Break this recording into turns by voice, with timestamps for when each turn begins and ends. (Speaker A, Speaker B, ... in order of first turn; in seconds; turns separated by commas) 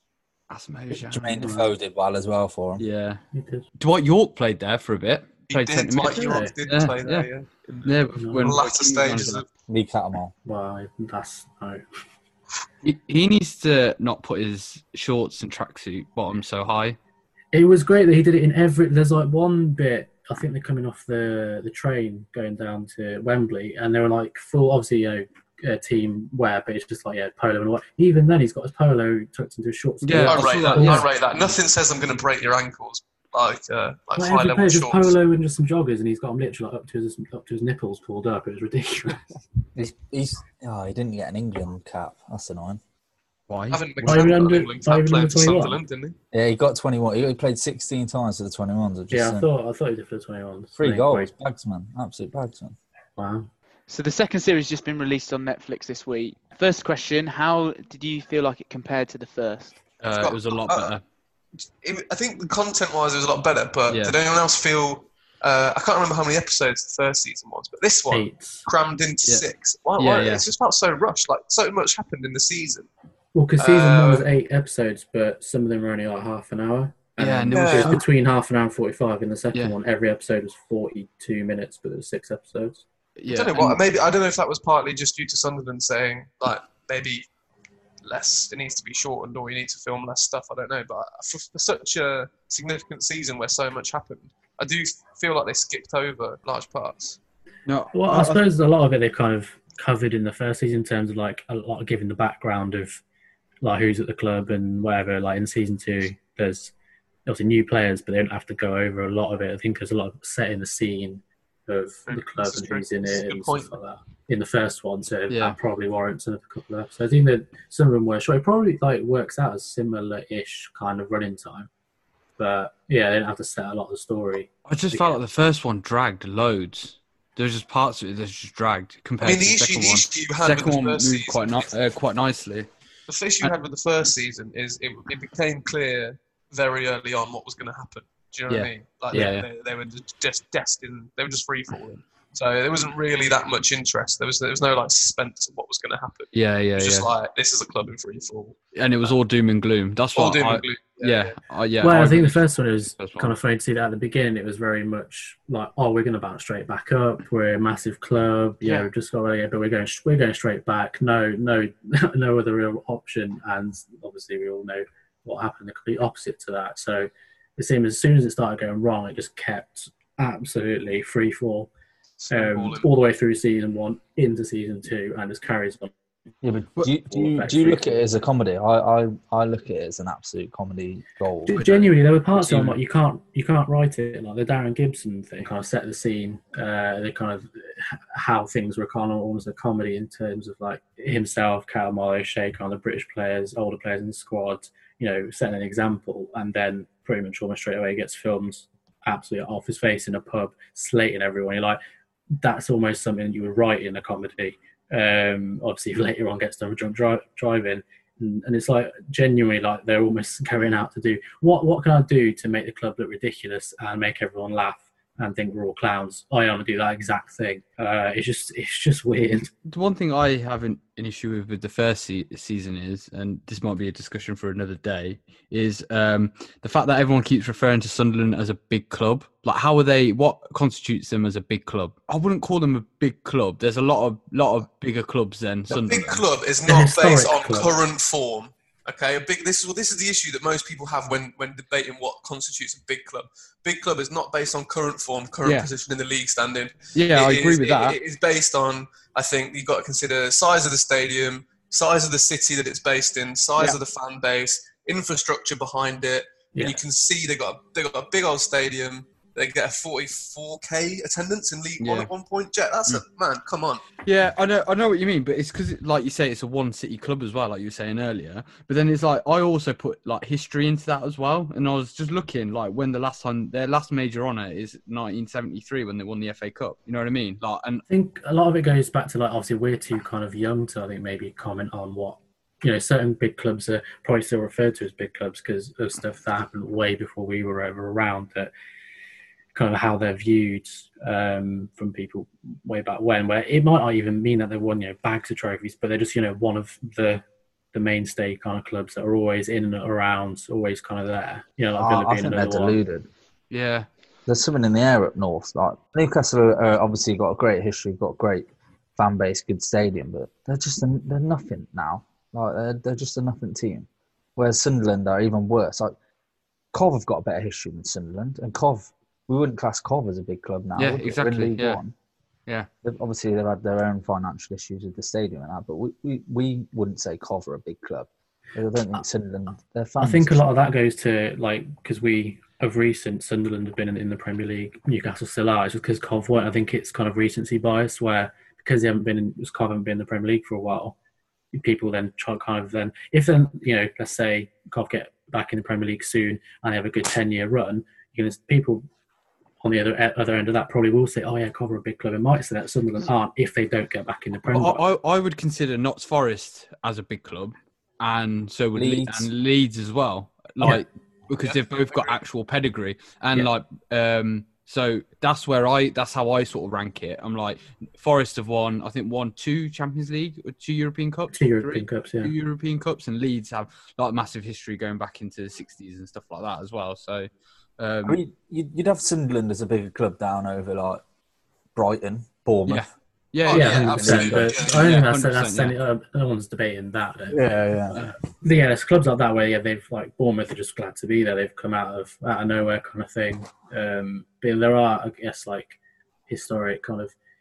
Speaker A: 0.5-1.2, Speaker B: 0.9-2.8, Speaker C: 1.4-1.6, Speaker A: 2.8-3.2, Speaker C: 3.3-3.6, Speaker A: 3.8-7.3, Speaker D: 5.5-9.4, Speaker C: 6.0-6.5, Speaker A: 7.8-9.4, Speaker C: 8.2-8.6, Speaker B: 9.7-10.3, Speaker C: 10.4-11.8, Speaker A: 12.8-17.0, Speaker C: 17.5-31.1, Speaker A: 30.0-31.5, Speaker D: 30.2-35.1, Speaker C: 34.1-39.2, Speaker B: 39.7-42.8, Speaker A: 43.5-44.2, Speaker D: 43.7-46.1, Speaker C: 44.0-45.8, Speaker B: 46.3-49.5, Speaker C: 49.1-51.3, Speaker B: 50.8-52.8, Speaker C: 53.2-53.5, Speaker E: 53.9-59.8, Speaker A: 60.0-61.0, Speaker D: 60.0-60.9, Speaker D: 61.8-72.9, Speaker A: 63.9-64.2, Speaker C: 68.1-68.6, Speaker A: 70.0-70.5, Speaker C: 73.3-82.8, Speaker D: 73.6-74.3, Speaker A: 77.2-78.0, Speaker D: 77.5-78.0, Speaker A: 83.2-83.8, Speaker D: 83.3-87.3, Speaker D: 88.0-97.2, Speaker A: 97.7-98.4, Speaker C: 97.9-103.0, Speaker C: 103.6-106.7, Speaker C: 107.3-121.7, Speaker D: 112.1-113.7, Speaker A: 115.3-115.6, Speaker C: 122.4-125.2, Speaker A: 124.7-132.7, Speaker D: 129.2-131.7, Speaker D: 133.1-149.1, Speaker A: 138.5-139.5, Speaker A: 146.3-147.1, Speaker A: 148.7-153.3, Speaker D: 150.1-151.3, Speaker C: 151.8-171.7, Speaker D: 172.2-172.9, Speaker C: 172.3-175.9, Speaker B: 176.4-181.6, Speaker C: 177.0-177.8, Speaker C: 181.4-201.8, Speaker A: 182.4-182.7, Speaker C: 202.4-219.5, Speaker A: 219.7-236.2, Speaker D: 235.7-263.8, Speaker C: 236.6-237.7, Speaker A: 245.4-245.7, Speaker A: 246.9-248.0, Speaker C: 256.5-256.8, Speaker A: 261.8-262.1, Speaker A: 264.0-277.8, Speaker C: 277.9-288.5, Speaker C: 289.5-297.2, Speaker C: 297.7-302.8, Speaker B: 301.8-303.1, Speaker A: 303.5-303.9, Speaker B: 304.3-315.9, Speaker B: 316.7-321.9, Speaker A: 320.8-321.8, Speaker B: 322.8-330.4, Speaker C: 330.0-340.9, Speaker C: 341.5-348.8, Speaker C: 349.6-354.8, Speaker A: 354.5-378.2, Speaker B: 358.7-359.3, Speaker D: 361.4-362.1, Speaker C: 371.3-372.3, Speaker B: 378.0-381.0, Speaker B: 381.7-382.9, Speaker A: 382.7-385.8, Speaker D: 383.4-385.0, Speaker C: 383.5-397.1, Speaker B: 383.8-384.5, Speaker B: 387.3-388.0